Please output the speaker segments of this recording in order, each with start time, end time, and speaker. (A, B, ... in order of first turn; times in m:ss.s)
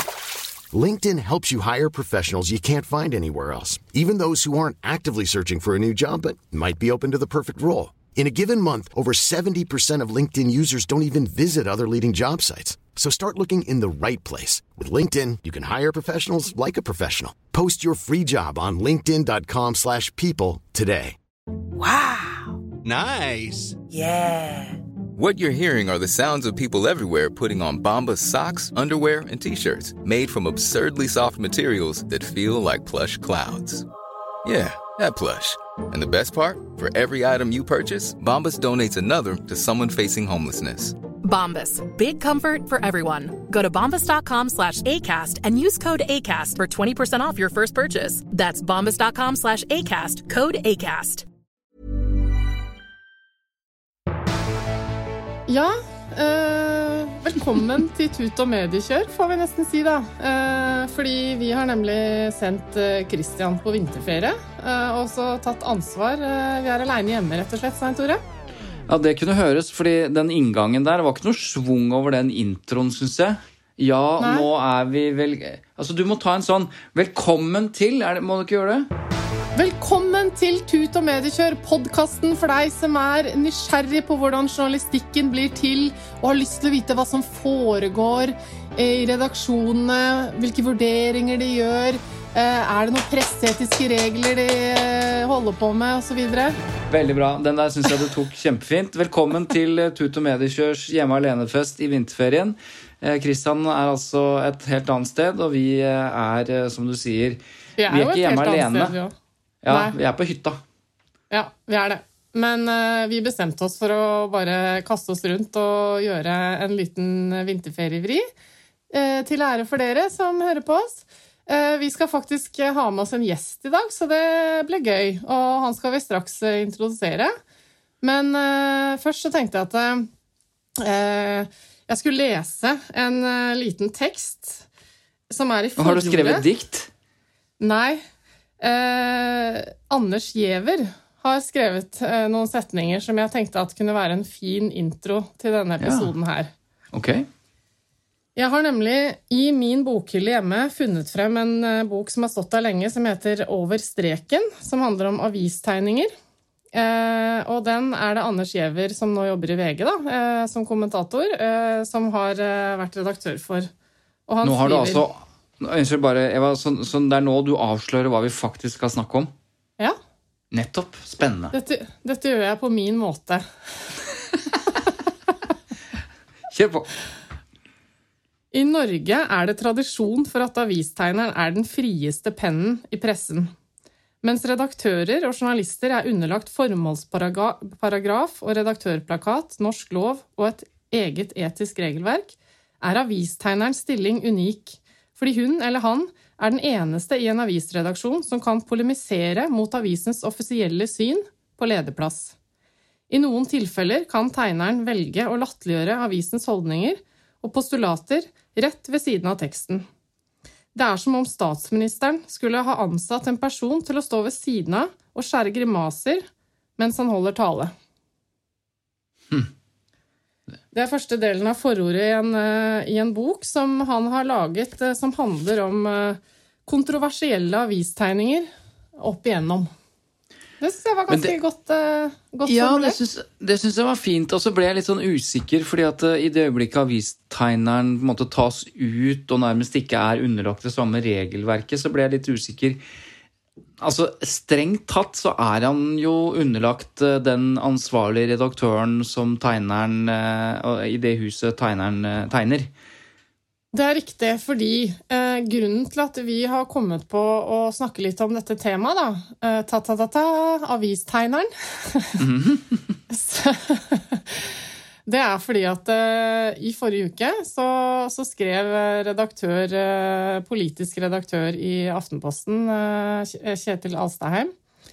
0:00.7-0:21.2 A
0:21.8-0:22.6 B
0:22.8-0:23.7 C
0:23.9-0:24.8 B
0:25.2-0:33.8 C
0:34.4-0:41.0 C
0:41.2-0:51.2 B
0:55.5-1:08.2 D
1:08.9-1:18.9 E
1:14.2-1:14.5 D
1:19.6-1:36.6 D
1:36.9-1:49.0 E
1:47.8-1:49.1 D
1:49.6-1:50.6 E
1:49.7-1:49.9 D
1:51.3-1:58.2 D
1:58.9-2:07.3 D
2:08.0-2:10.1 D
2:10.8-2:14.6 D
2:15.3-2:16.4 D
2:15.8-2:16.9 E
2:17.6-2:18.0 D
2:18.6-2:26.5 D
2:25.8-2:26.1 E
2:26.9-2:27.3 E
2:28.4-2:36.1 D
2:36.7-2:43.7 D
2:44.3-2:45.0 D
2:44.4-2:49.3 E
2:50.5-2:51.5 E
2:51.5-2:53.4 D
2:56.5-2:56.9 E
2:58.5-3:03.5 D
3:04.2-3:22.3 D
3:23.1-3:29.8 D
3:30.7-3:36.2 D
3:36.8-3:37.7 D
3:40.7-3:49.7 D
3:50.6-3:53.0 D
3:51.1-3:51.3 E
3:52.4-4:02.8 E
4:03.8-4:12.7 E
4:13.7-4:22.2 D
4:22.2-4:23.0 E
4:23.1-4:24.5 D
4:25.0-4:34.5 D